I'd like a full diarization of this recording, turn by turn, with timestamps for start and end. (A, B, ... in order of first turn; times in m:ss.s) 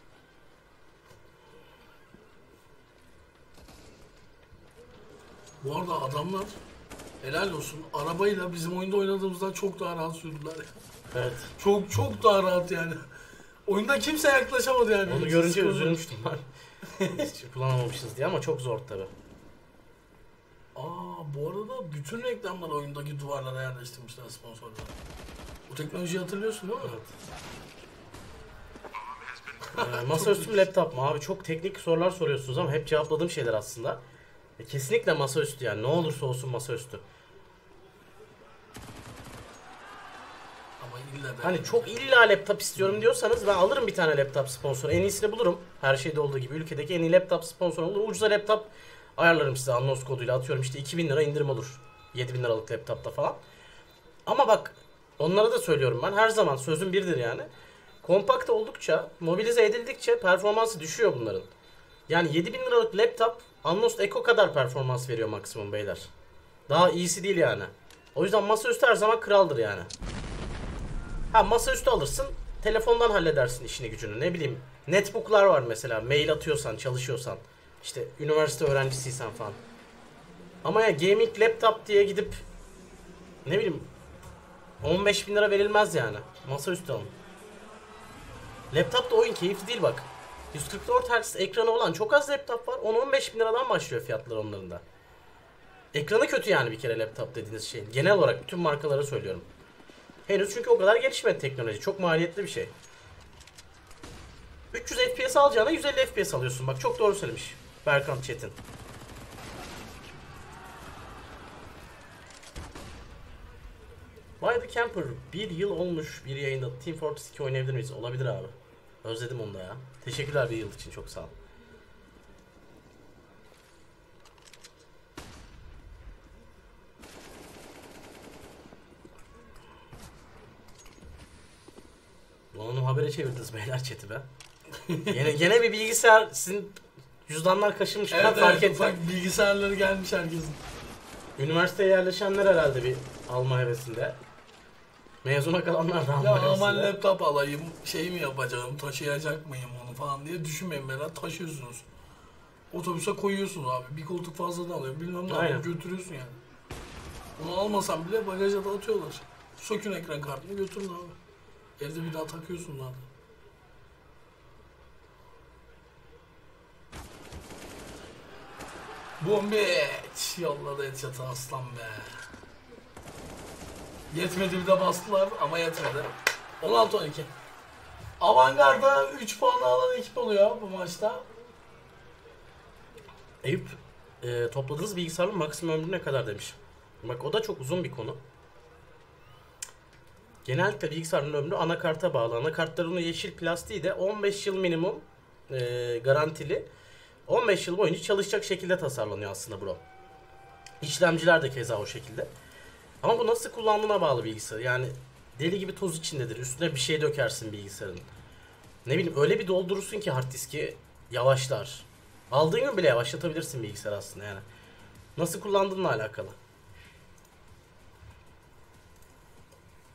0:05.6-0:06.6 A
0:07.2-0:10.7 A
0:11.1-0:11.5 B
0:11.6-0:13.0 A
0:13.7-0:16.0 A
0:15.1-0:16.5 B
0:17.0-0:17.2 A
0:17.0-0:19.1 B
0:20.8-0:24.9 A
0:25.7-0:27.0 A
0:26.8-0:27.1 B
0:29.8-0:34.0 B
0:29.8-0:30.4 A
0:34.6-0:37.0 B
0:40.8-0:42.2 A
0:41.4-0:53.4 B
0:54.3-0:57.5 B
0:58.0-1:01.5 B
1:02.1-1:06.1 B
1:06.7-1:09.9 B
1:11.3-1:19.6 B
1:20.6-1:22.4 B
1:23.4-1:23.9 B
1:24.8-1:27.1 B
1:28.7-1:34.8 B
1:35.9-1:39.4 B
1:40.3-1:42.7 B
1:44.7-1:48.6 B
1:54.4-2:01.3 B
2:12.5-2:14.3 B
2:14.8-2:15.2 A
2:15.1-2:19.0 B
2:18.1-2:20.6 A
2:21.4-2:24.2 B
2:25.2-2:26.9 B
2:26.2-2:31.9 A
2:32.7-2:36.4 A
2:35.3-2:35.7 B
2:37.4-2:41.2 A
2:41.8-2:43.0 A
2:49.2-2:52.2 A
2:54.1-2:57.3 A
2:58.2-3:01.2 A
3:03.4-3:08.2 B
3:10.4-3:16.7 B
3:17.3-3:19.8 B
3:20.8-3:22.3 B
3:23.0-3:28.0 B
3:28.8-3:34.4 B
3:35.2-3:36.4 B